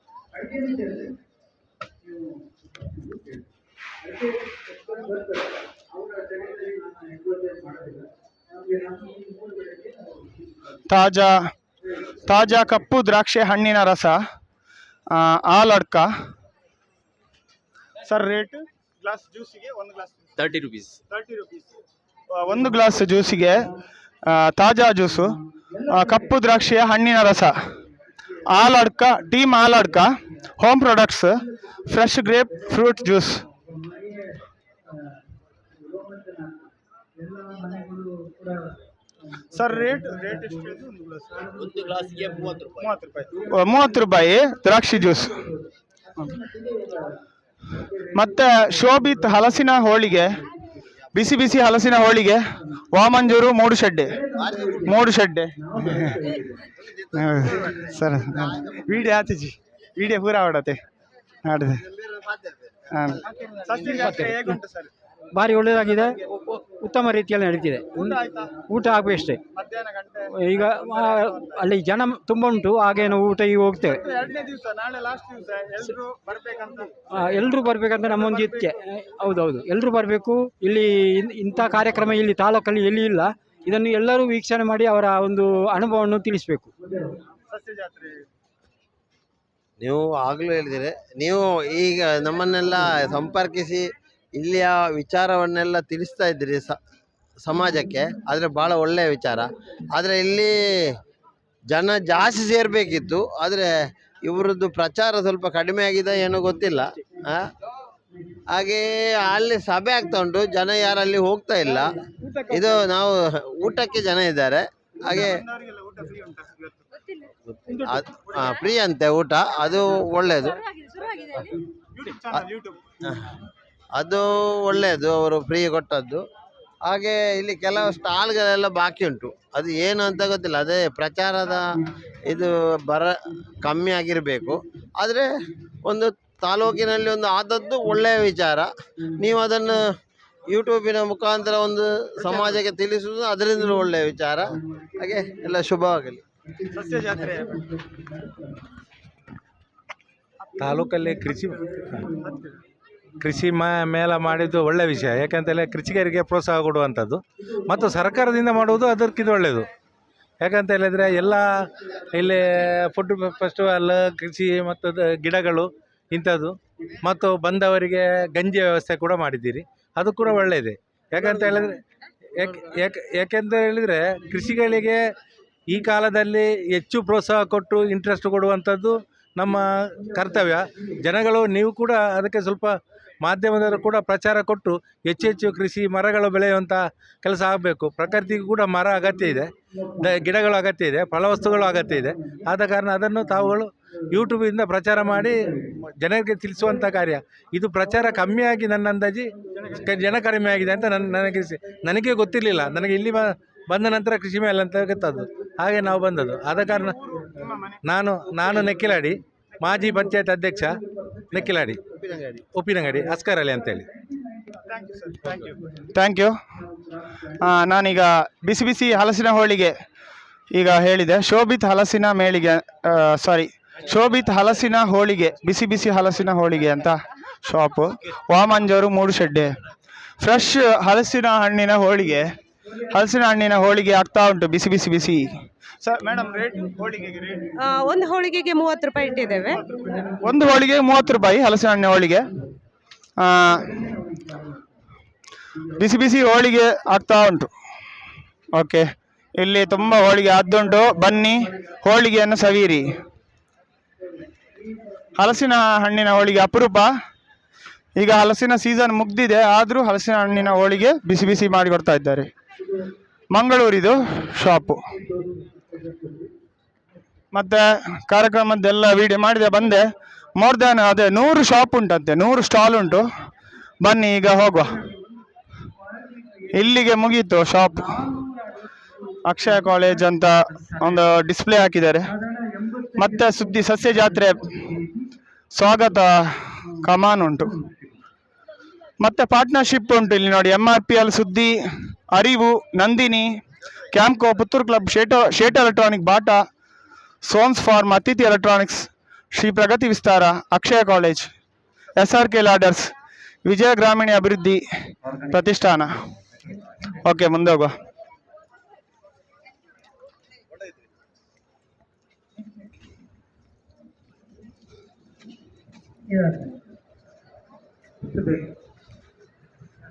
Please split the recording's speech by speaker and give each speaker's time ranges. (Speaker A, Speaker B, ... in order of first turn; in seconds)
Speaker A: 0.3-1.2, 2.0-3.5, 4.0-10.9, 25.6-26.4, 32.7-38.8, 39.3-44.1, 45.0-45.5, 46.2-48.9, 54.2-55.0, 55.6-56.7, 86.8-87.2, 144.5-145.6, 146.4-148.7, 150.9-152.5, 157.9-158.5, 191.6-192.4, 195.4-195.7, 206.8-207.6, 209.8-212.1, 213.1-215.9, 216.6-217.4, 236.1-237.8, 239.0-240.5, 243.6-244.7, 254.1-255.2, 262.6-262.9, 264.1-266.3, 275.8-276.5, 277.7-281.1, 282.1-285.1, 287.5-287.9, 316.1-316.6, 318.0-318.5
Speaker B: 10.9-11.5, 12.2-14.2, 15.1-16.1, 18.0-20.3, 21.1-21.6, 22.3-23.7, 24.2-27.6, 28.5-33.4, 39.5-41.4, 42.7-45.5, 48.1-50.4, 51.1-54.2, 54.9-56.1, 57.1-60.8, 61.4-61.8, 62.9-64.9, 69.5-70.2, 74.1-76.9, 87.5-88.1, 115.3-116.7, 122.0-122.7, 146.8-147.6, 207.1-207.7, 214.8-216.3, 217.4-219.7, 220.5-229.6, 230.2-232.3, 232.9-237.7, 239.5-242.3, 243.2-243.8, 245.8-247.5, 248.5-248.8, 249.4-253.0, 255.2-256.9, 258.0-262.3, 263.3-264.8, 267.3-273.1, 273.8-274.8, 276.5-278.0, 279.2-282.1, 283.0-284.5, 285.5-287.5, 289.0-291.6, 292.1-293.4, 293.9-296.4, 297.2-301.3, 302.0-302.9, 303.4-304.6, 305.3-305.9, 307.0-307.7
Speaker C: 54.4-54.9, 57.4-57.8, 58.3-58.8, 61.9-62.8, 89.8-96.8, 97.4-100.5, 101.7-107.5, 108.5-111.9, 112.5-115.4, 117.5-120.6, 123.9-126.2, 126.8-131.6, 132.3-135.3, 135.8-139.8, 140.5-146.2, 211.9-212.4
Speaker D: 63.8-64.6, 65.3-69.4, 70.3-74.0, 77.0-86.7
Speaker E: 150.6-152.1, 153.2-159.7, 160.4-161.5, 162.1-171.8, 172.3-175.0, 175.7-207.0, 207.8-210.8, 211.3-211.8, 212.5-213.8
Speaker F: 237.6-239.6